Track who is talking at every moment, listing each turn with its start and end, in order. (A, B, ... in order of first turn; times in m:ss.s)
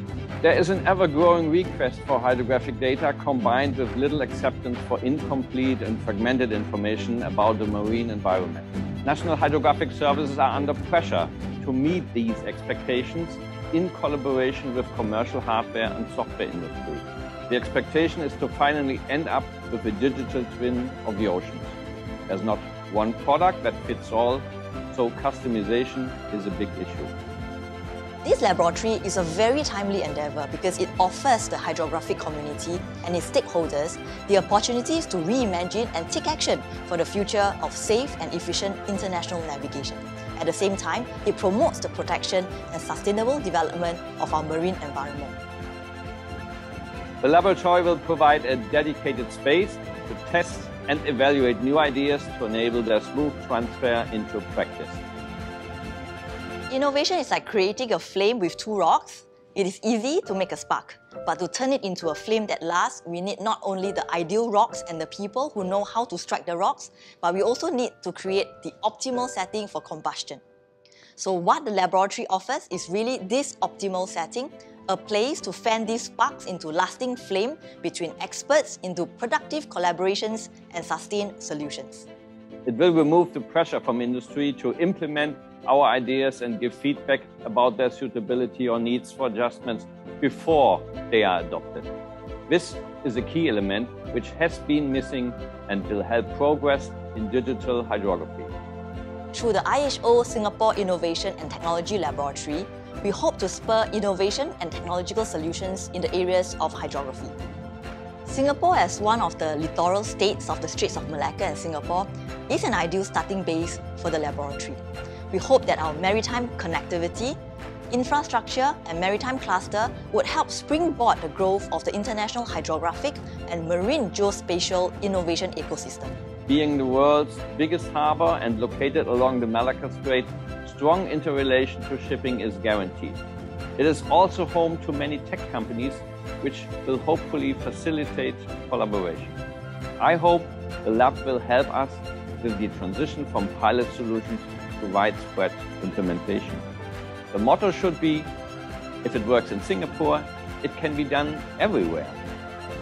0:00.4-0:21.8 A
0:22.3-0:27.1 A
0:28.2-0:45.4 B
0:47.2-0:55.0 A
0:56.7-1:10.4 B
1:11.2-1:22.1 B
1:22.6-1:31.9 A
1:32.5-1:38.5 A
1:39.3-1:47.4 B
1:48.2-1:57.4 B
1:57.9-2:06.1 B
2:06.5-2:13.2 A
2:13.8-2:19.4 A
2:20.0-2:26.6 A
2:27.3-2:28.3 A
2:29.0-2:32.2 A